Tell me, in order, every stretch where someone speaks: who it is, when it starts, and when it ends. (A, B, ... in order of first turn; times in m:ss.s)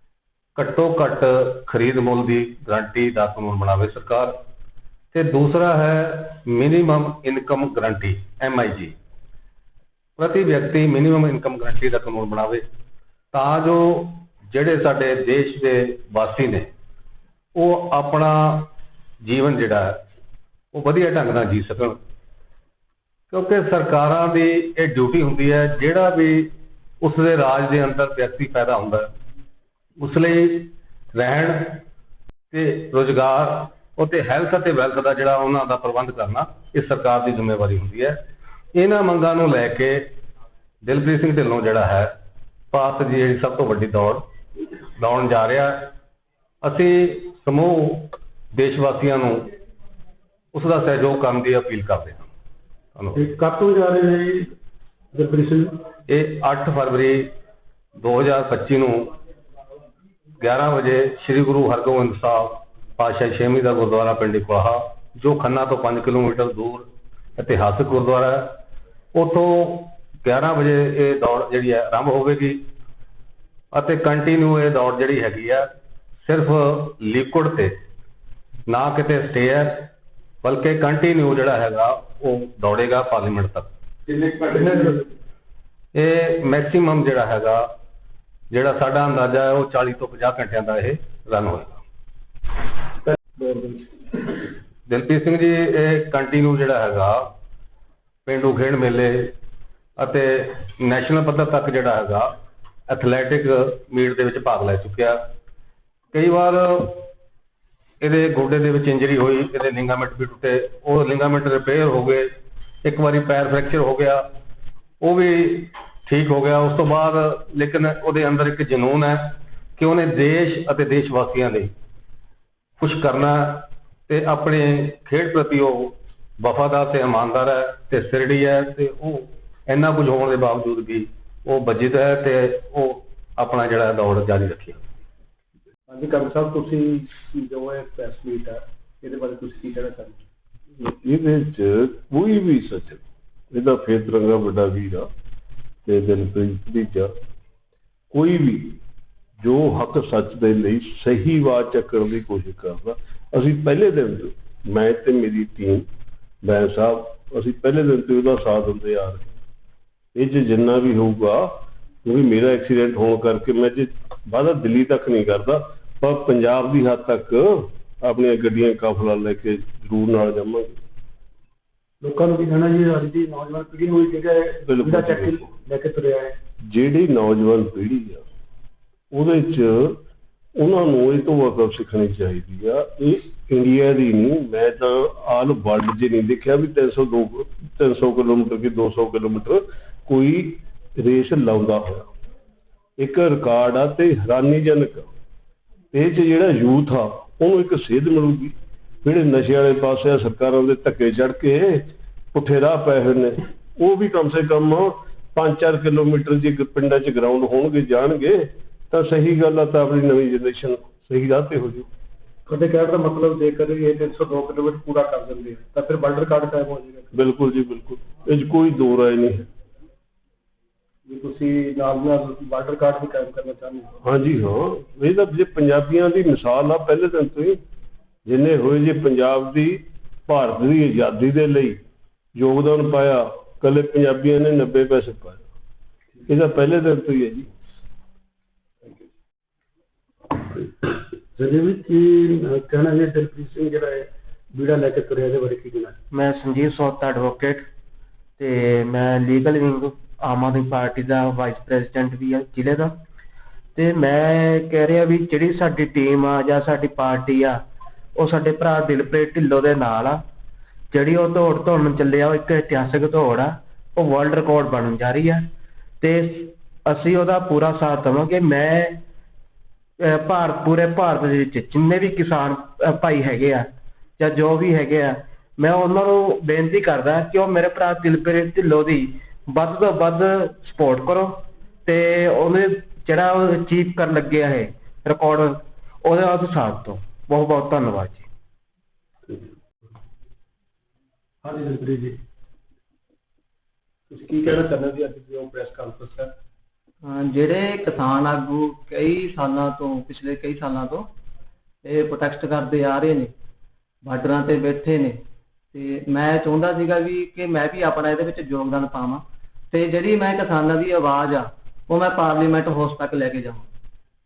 0:00.6-0:04.4 A
0:05.1-0:09.0 A
0:10.2-0:12.6 A
0:13.3-0:16.7 A
0:17.6-0:18.7 A
0:19.2-0:20.0 A
0:20.7-0:22.0 A
0:23.3-0:26.5 A
0:27.0-0:29.1 A
0:30.0-0:31.8 A
0:32.5-0:38.2 A
0:38.7-0:40.1 A
0:40.8-0:42.1 A
0:42.7-0:44.2 A
0:45.0-0:45.9 A
0:46.6-0:49.5 A
0:50.5-0:52.3 A
0:53.0-0:53.2 A
0:53.2-0:54.5 B
0:55.1-0:55.8 B
0:56.1-0:57.3 A
0:58.0-0:59.1 A
1:00.4-1:08.6 A
1:09.1-1:12.6 A
1:13.7-1:15.7 A
1:16.2-1:17.7 A
1:18.7-1:23.7 A
1:24.2-1:25.0 B
1:25.9-1:27.6 A
1:28.5-1:31.8 A
1:33.0-1:34.0 B
1:34.9-1:37.2 A
1:38.3-1:39.3 A
1:40.0-1:42.3 A
1:42.9-1:45.2 A
1:46.1-1:47.0 A
1:48.0-1:52.3 A
1:52.8-1:54.2 A
1:55.0-2:01.7 A
2:02.8-2:14.8 A
2:15.9-2:20.2 B
2:20.8-2:25.1 C
2:25.8-2:27.1 C
2:28.1-2:28.8 C
2:29.4-2:35.9 C
2:36.4-2:39.4 C
2:40.2-2:50.8 C
2:52.0-2:56.4 B
2:54.7-2:55.5 C
2:56.7-2:58.2 C
2:59.1-3:00.0 C
3:00.6-3:12.1 C
3:13.0-3:15.1 C
3:15.9-3:31.9 C
3:32.5-3:37.2 B
3:37.1-3:39.5 C
3:41.1-3:43.9 B
3:44.0-3:47.6 C
3:48.2-3:51.8 C
3:52.4-3:55.4 C
3:56.3-3:57.5 C
4:00.3-4:06.0 B
4:06.1-4:07.7 D
4:08.4-4:13.0 D
4:13.8-4:17.6 D
4:18.2-4:20.2 D
4:20.9-4:25.5 D
4:26.0-4:29.0 D
4:30.0-4:48.3 D
4:51.4-4:52.2 B
4:54.1-4:56.3 B
4:57.0-5:01.1 E
5:01.8-5:03.3 E
5:04.0-5:13.7 E